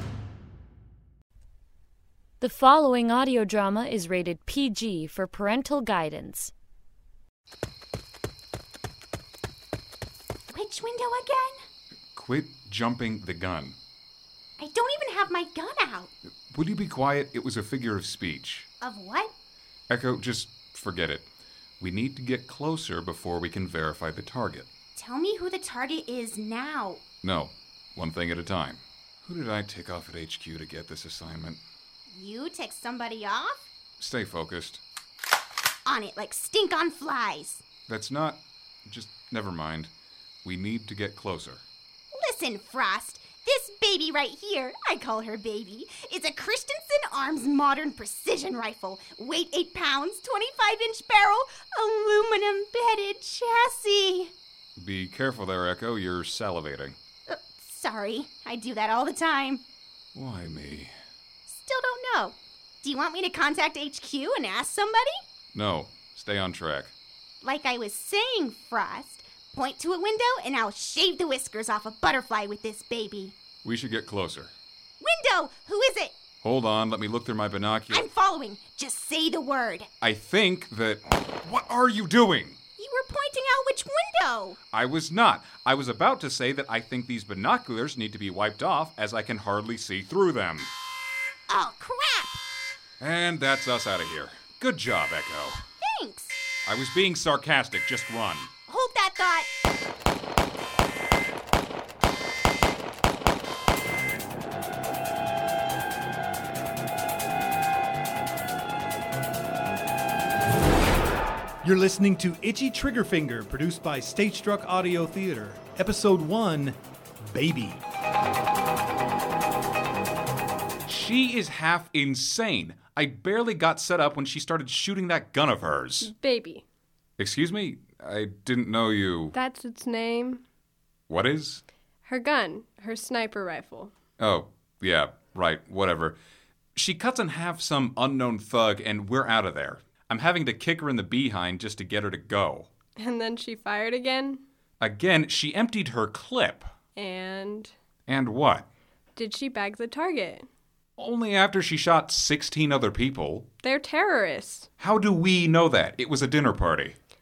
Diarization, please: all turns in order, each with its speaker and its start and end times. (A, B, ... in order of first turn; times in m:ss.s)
0:02.4-0:06.5 A
0:10.5-0:11.6 B
0:12.1-0:13.8 C
0:14.6-0:16.1 B
0:16.5-0:18.7 C
0:18.8-0:19.3 B
0:19.9-0:21.2 C
0:21.8-0:24.7 C
0:24.9-0:27.0 B
0:27.2-0:31.6 C
0:32.1-0:33.7 B
0:34.0-0:34.8 C
0:35.8-0:37.6 B
0:37.9-0:39.9 C
0:40.4-0:41.6 C
0:42.1-0:54.3 B
0:54.8-0:57.0 C
0:57.3-0:59.6 B
1:00.1-1:00.9 C
1:01.5-1:05.2 B
1:05.5-1:06.9 C
1:07.4-1:13.4 B
1:13.6-1:14.5 C
1:15.0-1:16.2 B
1:16.4-1:18.0 C
1:17.9-1:19.9 B
1:20.0-1:22.6 C
1:22.8-1:24.6 B
1:24.7-1:30.7 C
1:31.5-1:32.4 B
1:33.0-1:35.6 C
1:35.8-1:36.4 B
1:36.6-1:38.5 C
1:38.7-1:39.5 B
1:51.6-1:57.8 D
2:00.9-2:06.1 C
2:06.0-2:06.6 E
2:07.2-2:09.3 C
2:09.3-2:10.4 E
2:11.1-2:11.6 C
2:12.0-2:13.9 E
2:14.2-2:16.2 C
2:16.8-2:22.7 C
2:23.0-2:24.4 E
2:24.8-2:26.7 C
2:27.0-2:27.7 E
2:28.1-2:28.6 C
2:29.2-2:30.5 E
2:31.0-2:33.4 C
2:33.6-2:34.7 E
2:34.8-2:37.0 C